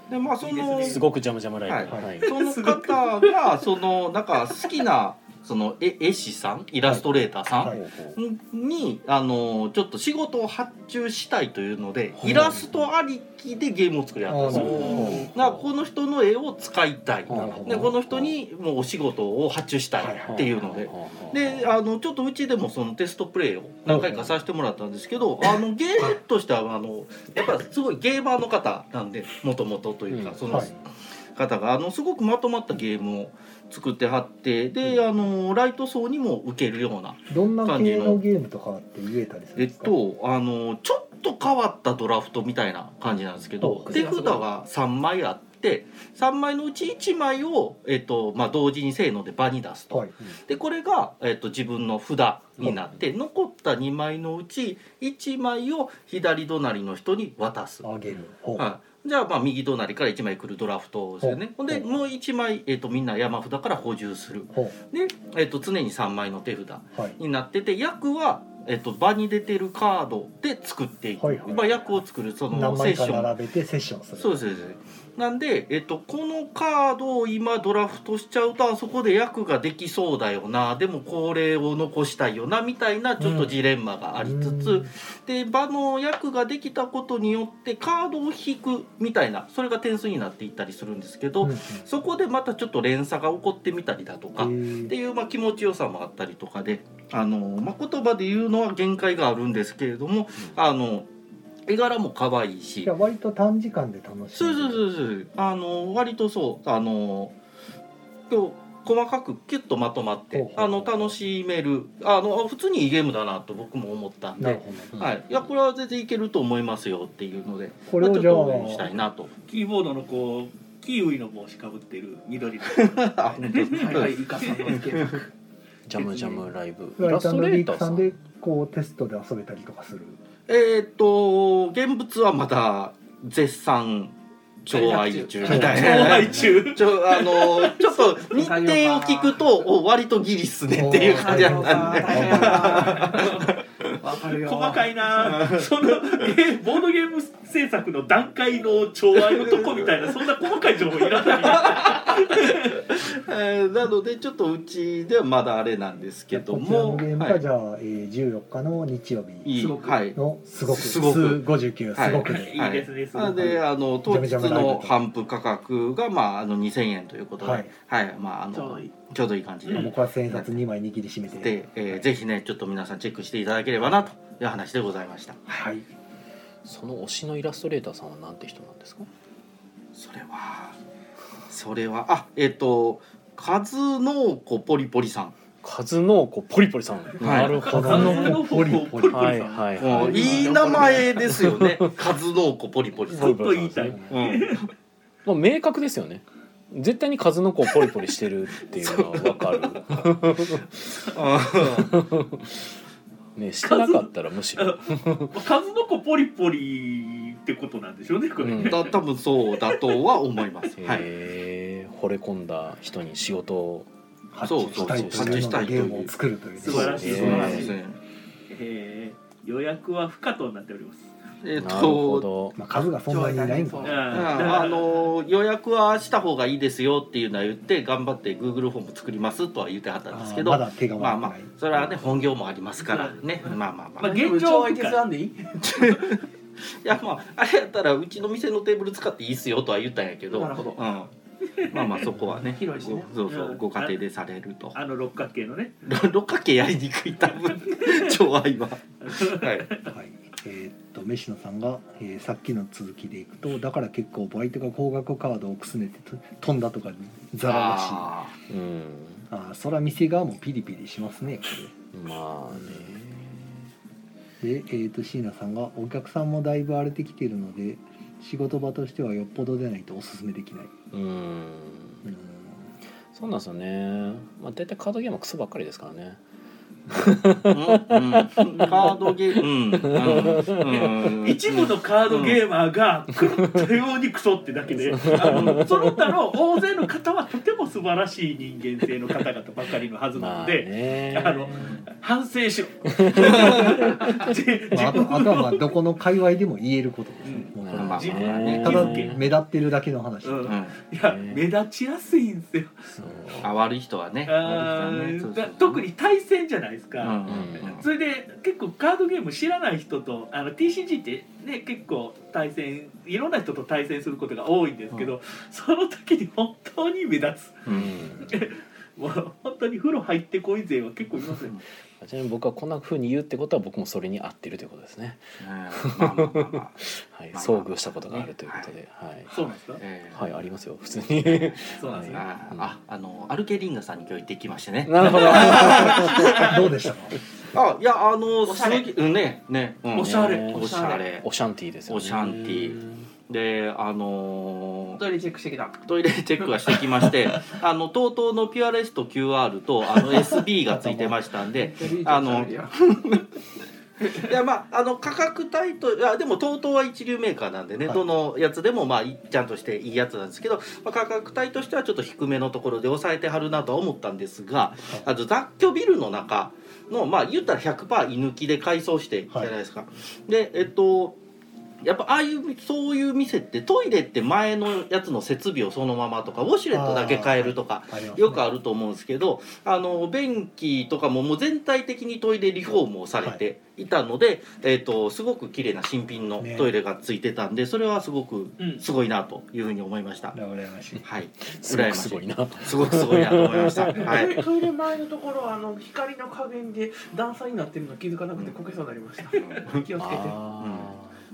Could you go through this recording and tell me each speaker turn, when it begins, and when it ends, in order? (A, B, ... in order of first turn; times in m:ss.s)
0:00.1-0:01.0 A
0:00.4-0:01.0 B
0:00.8-0:02.3 C
0:01.7-0:30.8 A
0:02.2-0:03.6 B
0:07.6-0:08.2 C
0:12.2-0:12.7 C
0:12.2-0:12.7 D
0:14.3-0:15.3 D
0:14.5-0:15.7 C
0:17.3-0:18.4 C
0:17.3-0:18.0 D
0:20.0-0:20.5 D
0:20.2-0:21.7 C
0:23.9-0:24.4 D
0:30.1-0:30.8 C
0:31.4-0:38.2 A
0:37.3-0:40.0 D
0:39.6-0:57.9 A
0:43.6-0:44.1 D
0:43.9-0:44.4 E
0:49.9-0:50.2 D
0:57.8-0:58.7 D
0:58.6-1:13.3 A
1:01.2-1:01.9 D
1:04.5-1:04.8 D
1:11.2-1:12.0 D
1:12.5-1:14.5 D
1:14.2-1:41.1 A
1:23.2-1:23.6 D
1:24.2-1:24.9 D
1:31.4-1:31.8 D
1:34.4-1:34.9 D
1:41.7-1:42.9 A
1:42.8-1:44.8 D
1:44.4-1:47.4 A
1:48.3-1:59.3 A
1:50.3-1:51.1 D
1:54.4-1:55.0 D
1:57.9-1:58.9 D
1:59.5-2:04.0 B
2:02.7-2:05.1 A
2:03.7-2:05.3 E
2:05.9-2:08.2 C
2:06.0-2:06.4 E
2:07.0-2:10.2 D
2:10.5-2:23.9 A
2:14.7-2:16.2 E
2:15.4-2:16.5 D
2:15.5-2:17.7 B
2:17.8-2:19.4 E
2:20.7-2:23.2 D
2:21.1-2:25.3 E
2:24.4-2:32.8 B
2:25.2-2:26.3 A
2:29.2-2:30.2 A
2:31.3-2:37.4 A
2:36.3-2:39.5 D
2:39.4-2:50.6 A
2:39.5-2:40.0 E
2:40.1-2:42.6 D
2:42.3-2:43.6 B
2:44.1-2:45.0 D
2:47.4-2:47.7 D
2:48.5-2:48.9 E
2:49.7-2:52.0 D
2:51.3-2:55.4 A
2:53.8-2:54.1 D
2:55.5-2:55.9 D
2:56.6-2:59.1 C
3:00.0-3:00.8 A
3:01.5-3:05.4 A
3:05.6-3:08.5 C
3:07.2-3:07.7 A
3:07.5-3:11.1 B
3:07.7-3:09.7 D
3:09.0-3:12.0 C
3:09.8-3:13.4 A
3:09.9-3:11.2 E
3:13.1-3:14.0 C
3:13.1-3:14.7 B
3:14.1-3:14.7 A
3:15.2-3:20.7 C
3:18.8-3:19.7 A
3:20.8-3:21.2 B
3:21.1-3:22.0 A
3:21.8-3:22.6 C
3:23.4-3:25.3 C
3:23.6-3:29.0 B
3:28.4-3:28.9 C
3:28.6-3:31.1 A
3:29.7-3:30.0 B
3:30.8-3:33.9 C
3:34.3-3:37.6 D
3:34.4-3:36.1 A
3:34.7-3:35.9 C
3:36.6-3:37.8 B
3:36.7-3:38.0 A
3:36.7-3:37.7 C
3:38.5-3:41.1 B
3:41.4-3:42.3 A
3:41.6-3:42.6 C
3:42.6-3:44.3 D
3:43.1-3:44.6 E
3:43.8-3:44.9 B
3:44.1-3:54.1 A
3:50.1-3:51.5 D
3:54.0-3:55.0 B
3:54.0-3:55.8 E
3:55.6-4:01.1 A
4:00.3-4:00.9 E
4:01.6-4:02.0 B
4:01.7-4:04.8 A
4:02.1-4:03.2 E
4:03.3-4:04.0 B
4:04.7-4:05.7 B
4:05.8-4:09.7 A
4:07.6-4:08.1 B
4:09.0-4:09.9 B
4:09.9-4:18.1 D
4:17.4-4:18.3 A
4:18.5-4:19.3 C
4:19.3-4:21.7 D
4:21.9-4:23.5 C
4:24.4-4:30.7 D
4:30.9-4:32.1 C
4:32.0-4:32.6 D
4:33.1-4:36.2 C
4:36.9-4:41.1 C
4:37.5-4:42.4 A
4:41.2-4:55.7 B
4:44.7-4:46.1 C
4:45.2-4:45.6 A
4:50.1-4:51.8 C
4:52.9-4:54.4 C
4:53.2-4:53.8 A
4:54.7-5:00.6 D
4:57.3-4:59.2 B
4:57.6-4:59.2 C
4:57.7-4:58.8 A
5:00.2-5:02.9 B
5:00.5-5:00.8 A
5:01.0-5:01.4 C
5:02.9-5:03.5 C
5:03.4-5:05.9 A
5:04.3-5:07.2 B
5:07.0-5:07.9 A
5:07.3-5:07.9 C
5:07.8-5:17.7 B
5:17.7-5:18.0 A
5:17.7-5:18.4 C
5:18.2-5:21.6 B
5:21.3-5:21.6 A
5:22.0-5:29.3 C
5:25.4-5:28.7 A
5:29.3-5:29.8 B
5:29.8-5:30.3 A
5:30.1-5:32.7 C
5:31.3-5:36.2 A
5:31.8-5:32.2 B
5:34.9-5:36.7 C
5:35.3-5:36.6 B
5:35.4-5:37.2 D
5:37.5-5:41.2 A
5:38.4-5:38.9 E
5:39.9-5:40.6 B
5:40.0-5:43.1 C
5:40.5-5:41.0 E
5:41.9-5:45.0 A
5:45.0-5:45.8 E
5:45.8-5:53.3 A
5:46.4-5:47.4 E
5:50.6-5:51.2 D
5:51.6-5:52.8 E
5:54.1-6:11.2 A
6:11.8-6:30.4 A
6:16.7-6:18.4 D
6:26.4-6:26.7 D
6:28.6-6:28.8 B
6:30.3-6:31.0 D
6:31.0-6:34.4 A
6:31.4-6:34.4 C
6:34.0-6:40.4 E
6:39.3-6:39.9 A
6:40.0-6:41.1 C
6:40.6-6:40.9 A